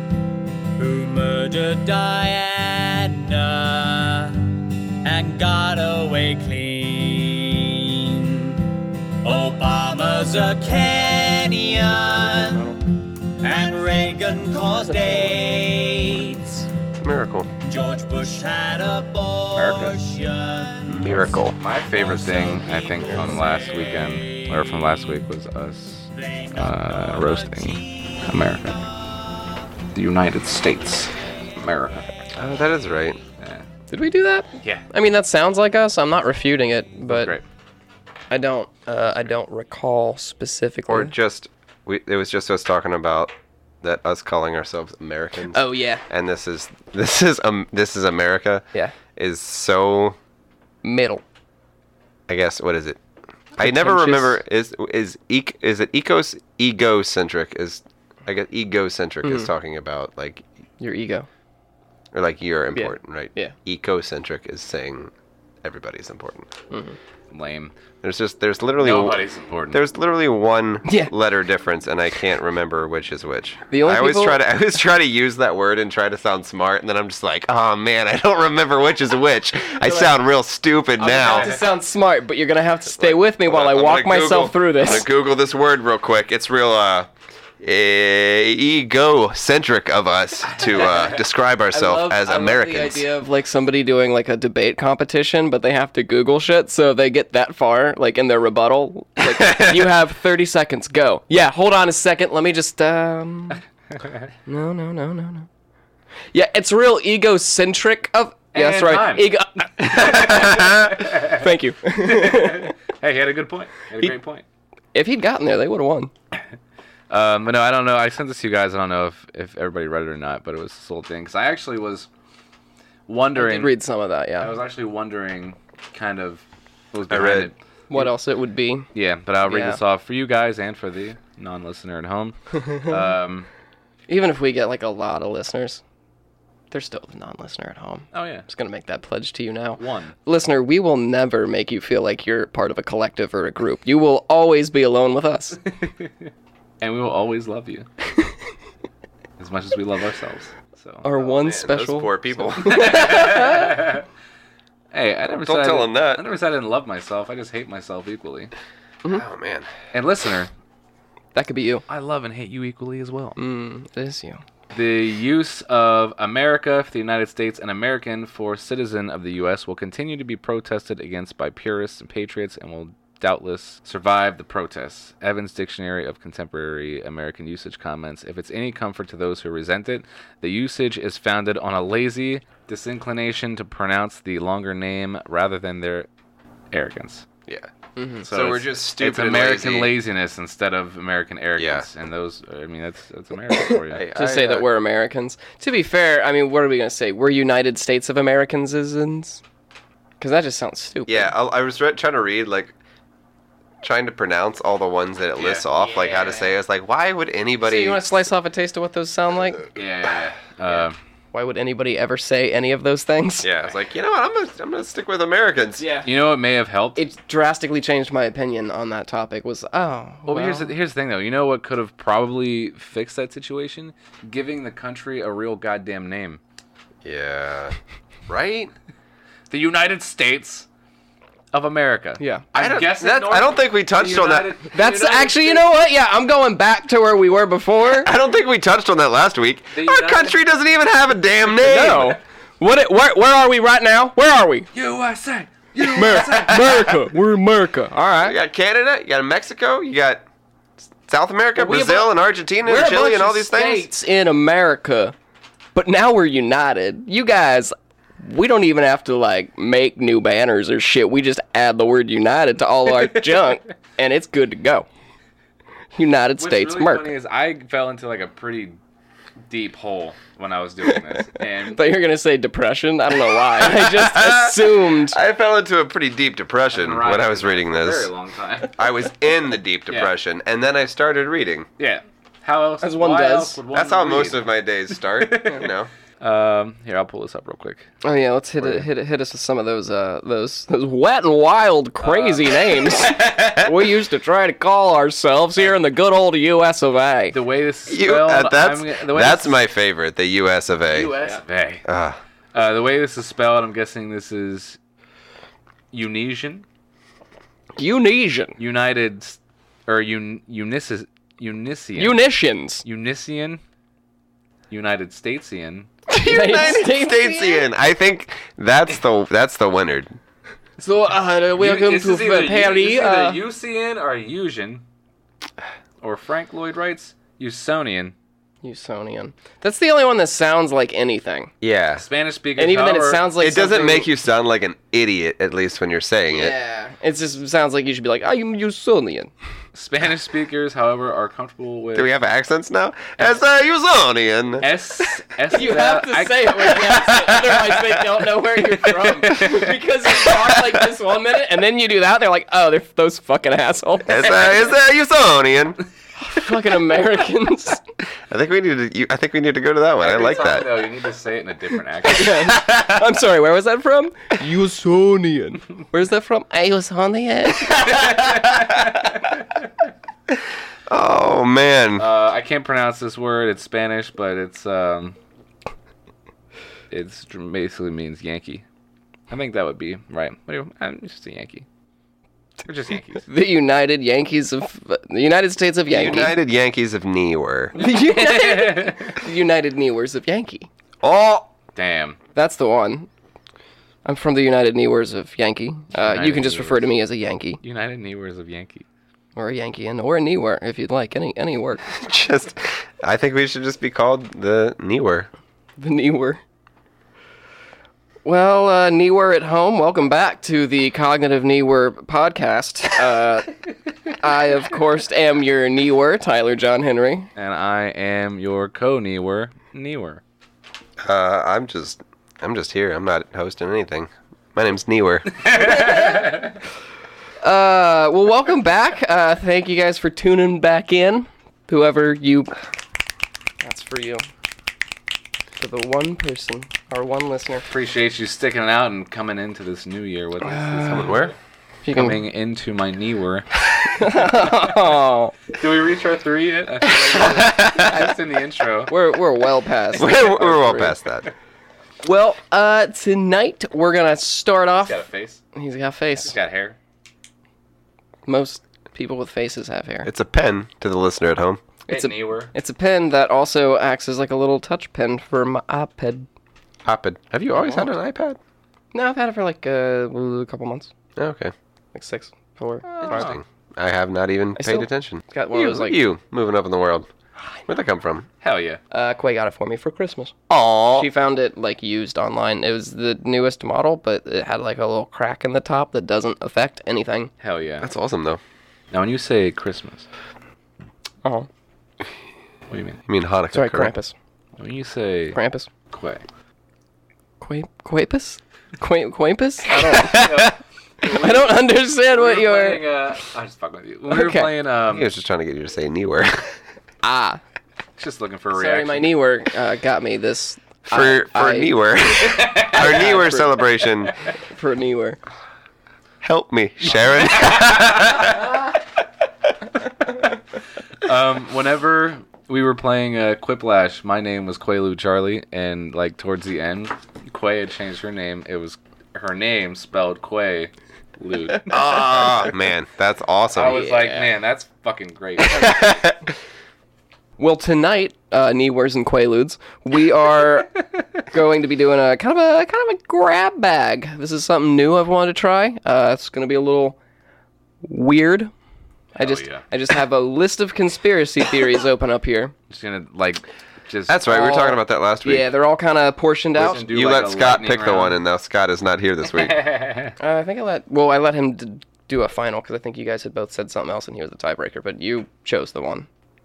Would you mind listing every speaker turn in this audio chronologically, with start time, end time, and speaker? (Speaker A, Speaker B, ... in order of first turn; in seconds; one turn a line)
Speaker A: 0.8-16.7
Speaker B: 14.9-15.3
Speaker C: 17.0-17.5
Speaker A: 17.6-24.6
Speaker D: 19.5-20.0
Speaker C: 20.9-21.6
Speaker D: 21.6-28.8
Speaker A: 26.1-29.3
Speaker D: 29.9-32.1
Speaker C: 32.4-33.2
Speaker D: 33.4-33.6
Speaker B: 33.9-37.3
Speaker D: 37.1-37.4
Speaker B: 38.3-41.1
Speaker C: 40.9-50.2
Speaker B: 45.5-46.0
Speaker B: 50.8-51.2
Speaker C: 52.3-53.0
Speaker C: 53.6-60.4
Speaker B: 53.6-54.4
Speaker B: 59.2-59.5
Speaker B: 60.8-61.2
Speaker C: 62.1-65.1
Speaker B: 62.7-63.5
Speaker C: 65.6-66.5
Speaker B: 66.7-67.0
Speaker D: 67.3-67.7
Speaker C: 68.0-69.2
Speaker D: 68.8-69.8
Speaker C: 69.7-81.6
Speaker B: 70.8-71.1
Speaker B: 73.7-74.4
Speaker B: 79.8-80.1
Speaker B: 81.0-85.0
Speaker C: 82.9-93.1
Speaker B: 91.7-103.6
Speaker C: 99.2-99.9
Speaker B: 104.5-105.5
Speaker B: 106.3-112.7
Speaker D: 108.5-114.4
Speaker C: 110.1-110.6
Speaker B: 114.9-116.1
Speaker D: 117.1-122.1
Speaker D: 123.1-123.7
Speaker B: 123.3-124.5
Speaker D: 124.4-128.1
Speaker C: 127.1-127.5
Speaker B: 127.9-128.9
Speaker D: 128.9-133.5
Speaker B: 129.4-129.8
Speaker B: 132.5-133.0
Speaker B: 134.1-135.8
Speaker B: 136.7-145.6
Speaker D: 138.1-138.4
Speaker D: 139.8-140.2
Speaker D: 145.7-146.3
Speaker D: 146.8-147.9
Speaker D: 149.4-151.0
Speaker B: 151.0-153.8
Speaker C: 151.2-153.4
Speaker D: 152.7-154.0
Speaker D: 154.9-158.5
Speaker C: 155.4-156.2
Speaker C: 159.1-159.7
Speaker D: 159.9-160.5
Speaker B: 161.3-161.8
Speaker D: 161.9-163.4
Speaker B: 163.4-164.4
Speaker D: 164.7-186.1
Speaker D: 186.7-187.2
Speaker B: 188.0-188.3
Speaker C: 188.2-189.9
Speaker D: 188.3-194.0
Speaker C: 191.6-191.9
Speaker C: 193.9-194.7
Speaker B: 194.1-199.4
Speaker B: 200.2-201.3
Speaker C: 201.1-202.7
Speaker C: 203.8-208.1
Speaker D: 205.4-206.5
Speaker B: 207.6-209.7
Speaker D: 209.8-210.9
Speaker B: 211.3-213.5
Speaker C: 213.4-215.9
Speaker B: 215.8-216.1
Speaker D: 216.0-217.0
Speaker B: 216.9-220.7
Speaker D: 220.3-226.4
Speaker C: 227.0-227.8
Speaker C: 228.3-228.7
Speaker D: 229.5-230.7
Speaker D: 231.5-235.7
Speaker B: 232.2-232.4
Speaker C: 232.5-234.5
Speaker B: 234.7-238.1
Speaker C: 238.0-242.2
Speaker D: 239.7-240.4
Speaker B: 241.6-244.7
Speaker D: 244.7-247.0
Speaker B: 245.8-248.4
Speaker C: 248.2-250.2
Speaker C: 251.1-253.9
Speaker B: 251.6-252.1
Speaker B: 252.6-255.1
Speaker B: 255.7-264.9
Speaker B: 265.9-267.1
Speaker D: 266.4-268.8
Speaker D: 269.5-271.8
Speaker B: 271.6-275.2
Speaker C: 273.6-278.1
Speaker D: 276.7-278.8
Speaker C: 278.8-281.7
Speaker D: 281.8-287.9
Speaker B: 282.8-283.6
Speaker C: 283.7-285.9
Speaker B: 288.0-297.4
Speaker D: 292.0-293.3
Speaker D: 297.3-299.6
Speaker C: 297.9-301.1
Speaker D: 300.9-301.8
Speaker C: 301.9-302.2
Speaker D: 302.5-304.8
Speaker D: 305.9-306.6
Speaker B: 307.8-308.6
Speaker D: 308.6-312.2
Speaker B: 312.0-312.8
Speaker D: 312.8-313.6
Speaker D: 314.7-315.9
Speaker C: 316.1-320.1
Speaker B: 316.1-317.6
Speaker B: 320.8-323.4
Speaker D: 321.6-324.8
Speaker D: 326.0-328.1
Speaker B: 328.6-331.5
Speaker C: 331.6-332.0
Speaker D: 332.0-333.3
Speaker B: 332.6-334.1
Speaker C: 333.4-336.5
Speaker B: 336.3-339.3
Speaker D: 339.7-342.1
Speaker C: 341.9-344.7
Speaker D: 344.6-346.9
Speaker B: 345.5-354.7
Speaker C: 346.9-348.0
Speaker C: 350.2-350.6
Speaker C: 354.1-355.8
Speaker B: 356.2-357.8
Speaker C: 358.3-360.9
Speaker D: 360.0-362.4
Speaker B: 362.1-368.0
Speaker C: 362.5-363.0
Speaker D: 367.7-369.4
Speaker C: 370.9-372.1
Speaker D: 372.0-375.2
Speaker D: 376.9-378.6
Speaker D: 379.3-381.6
Speaker D: 382.6-383.2
Speaker B: 383.3-386.4
Speaker C: 385.9-387.8
Speaker B: 387.7-390.7
Speaker D: 387.8-389.2
Speaker C: 391.0-391.5
Speaker D: 391.7-392.2
Speaker B: 392.3-393.1
Speaker B: 394.0-397.6
Speaker D: 395.9-396.9
Speaker D: 397.6-398.8
Speaker B: 399.4-401.8
Speaker C: 401.9-405.3
Speaker B: 405.8-406.4
Speaker B: 408.2-413.5
Speaker B: 414.1-417.3
Speaker D: 417.4-420.2
Speaker C: 421.0-425.4
Speaker D: 425.4-426.5
Speaker B: 425.5-426.5
Speaker B: 427.4-432.5
Speaker B: 433.6-434.2
Speaker B: 435.6-437.6
Speaker D: 437.7-441.3
Speaker C: 440.9-441.3
Speaker B: 441.8-442.2
Speaker D: 441.9-443.5
Speaker B: 443.8-445.4
Speaker D: 444.3-444.6
Speaker D: 445.5-448.9
Speaker C: 447.1-448.1
Speaker B: 448.9-450.9
Speaker C: 449.9-451.3
Speaker B: 452.0-456.4
Speaker D: 454.8-455.4
Speaker D: 456.2-456.8
Speaker B: 458.3-460.1
Speaker C: 460.0-461.6
Speaker D: 461.9-462.5
Speaker B: 461.9-466.3
Speaker C: 466.8-468.4
Speaker B: 467.5-467.9
Speaker B: 468.9-470.9
Speaker C: 471.1-471.5
Speaker B: 471.9-473.3
Speaker C: 473.0-477.1
Speaker D: 473.1-473.4
Speaker B: 474.6-476.0
Speaker C: 477.7-478.3
Speaker D: 478.4-478.8
Speaker B: 478.9-480.3
Speaker C: 480.5-481.1
Speaker B: 480.9-487.3
Speaker D: 487.4-487.9
Speaker C: 487.8-488.4
Speaker D: 488.9-490.1
Speaker D: 492.7-493.0
Speaker C: 493.1-493.9
Speaker B: 493.5-494.1
Speaker D: 494.6-495.4
Speaker B: 495.3-495.7
Speaker D: 495.9-496.2
Speaker B: 497.4-500.5
Speaker D: 499.8-505.1
Speaker B: 501.0-502.9
Speaker B: 504.1-504.5
Speaker C: 504.9-506.5
Speaker B: 507.0-507.4
Speaker D: 508.0-509.1
Speaker B: 508.5-511.8
Speaker C: 510.9-514.1
Speaker D: 512.3-513.1
Speaker B: 512.7-513.5
Speaker B: 514.5-515.2
Speaker C: 516.2-518.5
Speaker D: 516.9-518.2
Speaker D: 521.0-531.7
Speaker C: 531.7-533.8
Speaker D: 533.5-536.0
Speaker B: 533.6-534.3
Speaker C: 535.6-536.2
Speaker B: 537.4-547.0
Speaker B: 547.8-548.5
Speaker D: 549.1-549.6
Speaker B: 549.1-552.5
Speaker D: 552.7-554.2
Speaker C: 554.1-555.5
Speaker B: 554.3-556.8
Speaker D: 556.5-558.2
Speaker C: 556.6-559.6
Speaker D: 559.2-560.1
Speaker B: 560.2-566.1